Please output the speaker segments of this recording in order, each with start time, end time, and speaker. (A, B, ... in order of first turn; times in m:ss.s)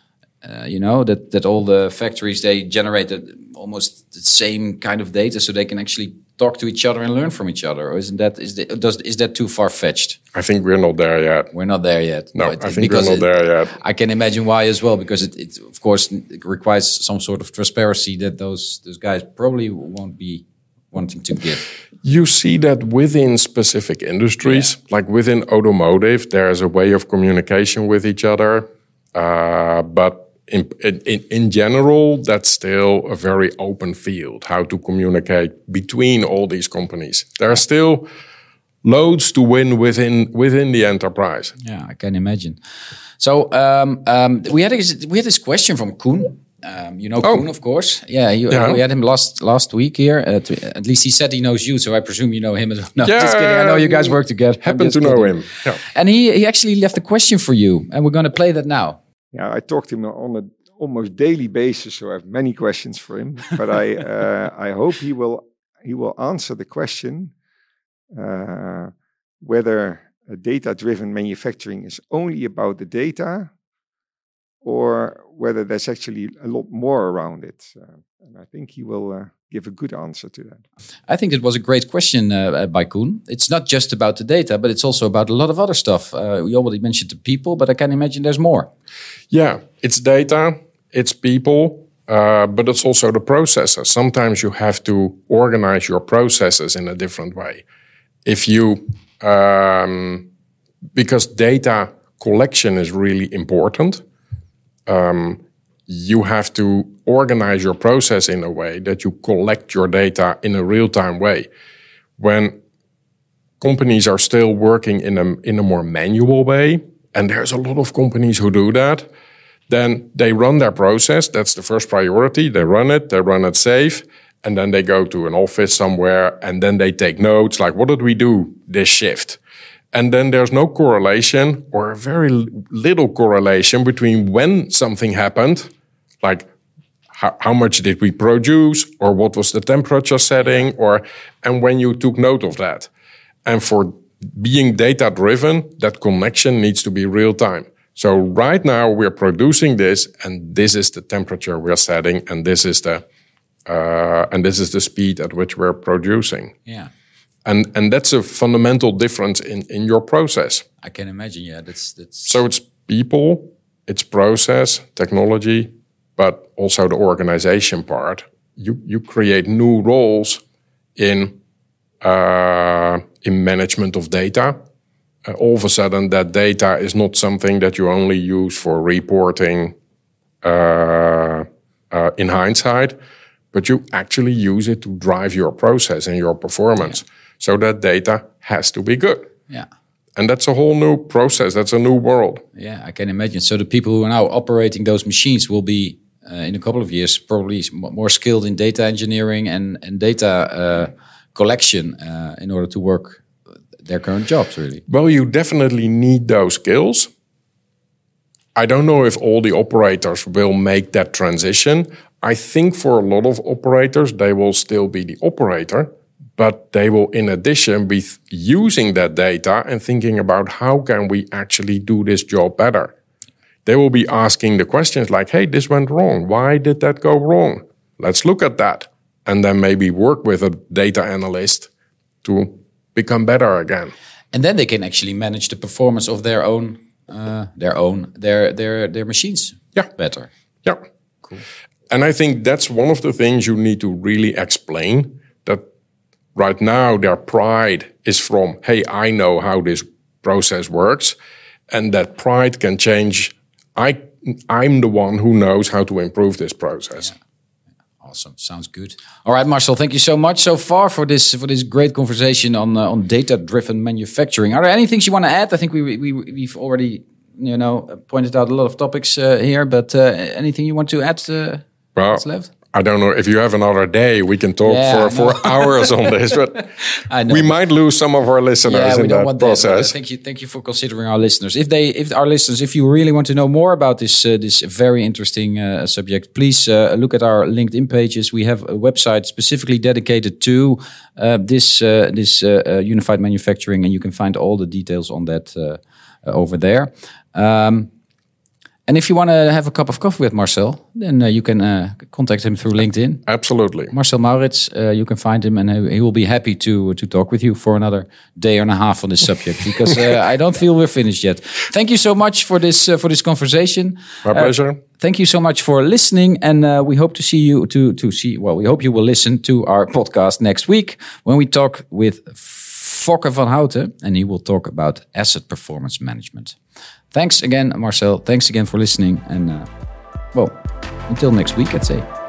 0:00.4-0:10.2 A
0:10.3-0:11.5 B
0:11.5-0:21.7 A
0:12.4-0:13.8 B
0:22.0-0:38.1 B
0:38.8-0:41.6 B
0:41.6-0:42.6 A
0:43.2-0:59.0 A
0:48.5-0:48.8 B
0:53.0-0:55.8 B
0:59.3-1:07.3 C
1:08.1-1:13.5 C
1:14.6-1:20.6 C
1:21.1-1:28.7 A
1:29.3-1:37.6 B
1:38.3-1:40.3 B
1:41.0-1:44.0 B
1:44.9-1:51.5 B
1:52.2-1:52.6 B
1:53.6-1:59.1 B
1:59.7-2:09.4 B
2:09.9-2:15.7 B
2:16.2-2:16.5 B
2:17.1-2:22.9 B
2:23.5-2:33.0 B
2:33.7-2:36.5 B
2:36.7-2:36.9 A
2:37.5-2:40.6 B
2:40.8-2:42.4 A
2:42.3-2:50.4 B
2:51.0-2:51.4 B
2:52.0-2:54.6 B
2:55.3-2:59.8 B
3:00.4-3:03.0 B
3:03.5-3:09.3 B
3:10.2-3:12.4 B
3:12.6-3:23.2 A
3:23.8-3:24.8 A
3:24.9-3:27.1 B
3:28.6-3:42.9 B
3:43.7-3:51.7 B
3:52.2-3:53.9 B
3:54.3-4:00.3 A
4:01.9-4:05.6 B
4:06.4-4:11.2 B
4:11.7-4:17.1 B
4:18.0-4:32.5 A
4:32.0-4:36.7 B
4:34.6-4:36.0 A
4:36.9-4:37.5 A
4:37.3-4:40.0 B
4:38.7-4:57.9 A
4:58.9-5:03.2 A
5:03.3-5:03.9 B
5:03.9-5:26.6 A
5:14.2-5:14.8 B
5:27.1-5:29.7 A
5:30.3-5:32.1 A